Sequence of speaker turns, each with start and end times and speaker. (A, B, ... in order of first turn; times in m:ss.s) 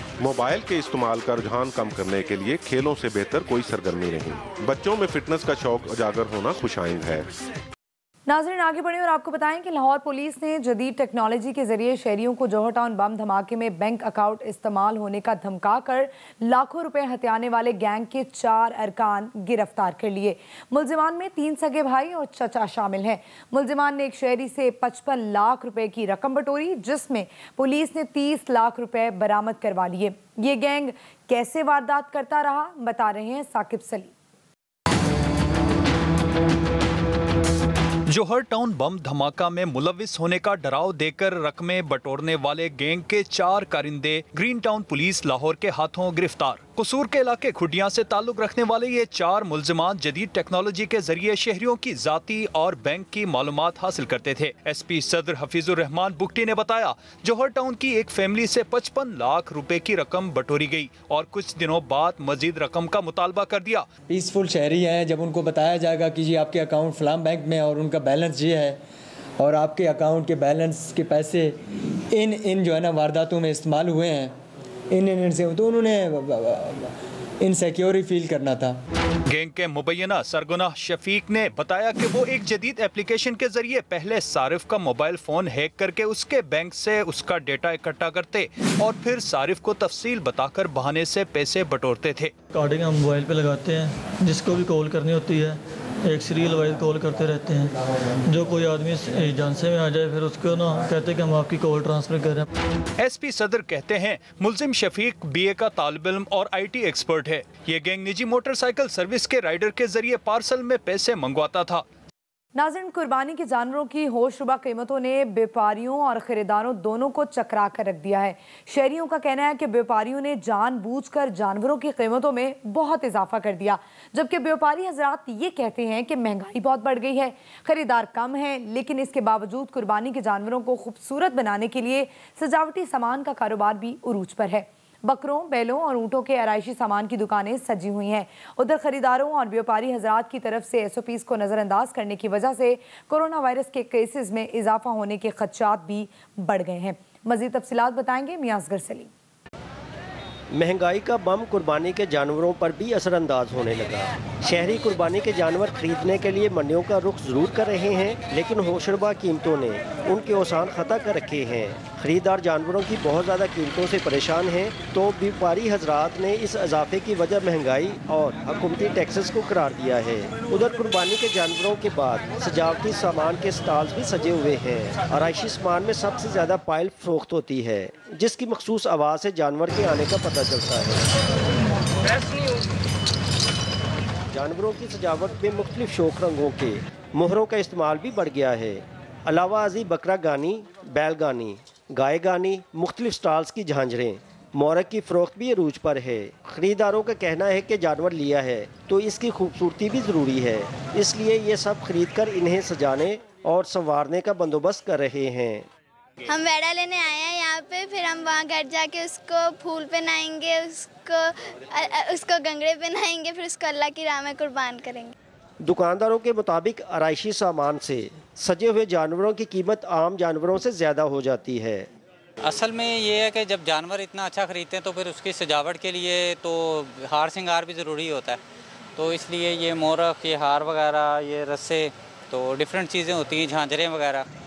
0:00.2-0:07.3 A
0:08.3-0:34.1 B
0:38.1-1:03.9 C
1:04.1-1:08.8 D
1:09.4-1:11.6 D
1:12.1-1:14.4 D
1:14.9-1:18.8 D
1:19.3-1:32.4 C
1:32.5-1:37.7 E
1:38.3-1:42.5 E
1:43.0-1:51.8 C
1:52.6-2:29.1 B
2:30.5-3:01.1 F
3:04.3-3:25.7 F
3:26.3-3:35.1 G
3:35.6-3:41.9 F
3:42.4-3:48.4 H
3:49.0-3:54.3 H